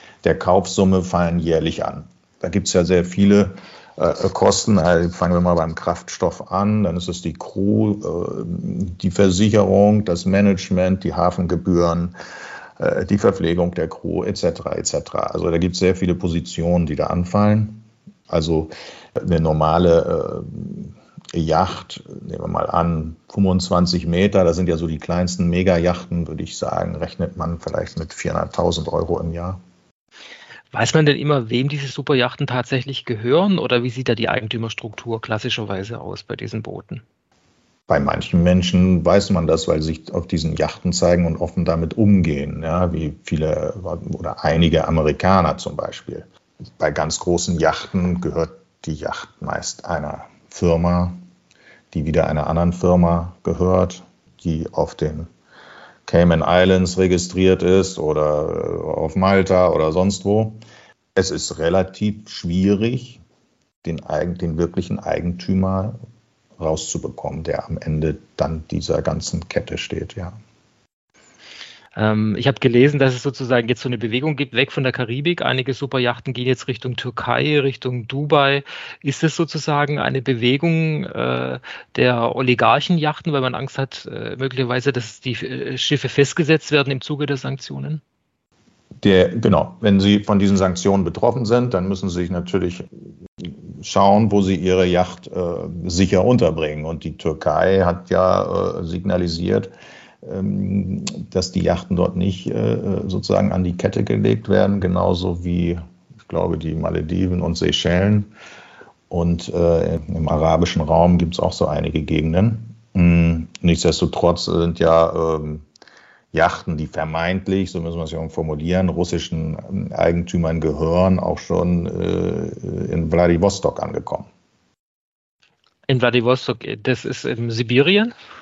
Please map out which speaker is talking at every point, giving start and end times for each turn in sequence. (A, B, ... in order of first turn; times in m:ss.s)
0:00.2-0:12.1 A
0:12.8-0:29.6 A
0:30.7-0:37.0 B
0:37.9-0:51.2 A
0:51.9-0:55.3 A
0:56.0-1:00.6 A
1:01.2-1:03.2 A
1:03.8-1:06.0 A
1:06.6-1:10.4 A
1:12.0-1:28.0 B
1:29.0-1:32.8 A
1:33.4-1:39.7 A
1:40.2-1:48.3 A
1:49.1-1:55.6 A
1:56.3-2:04.3 A
2:05.9-2:08.1 B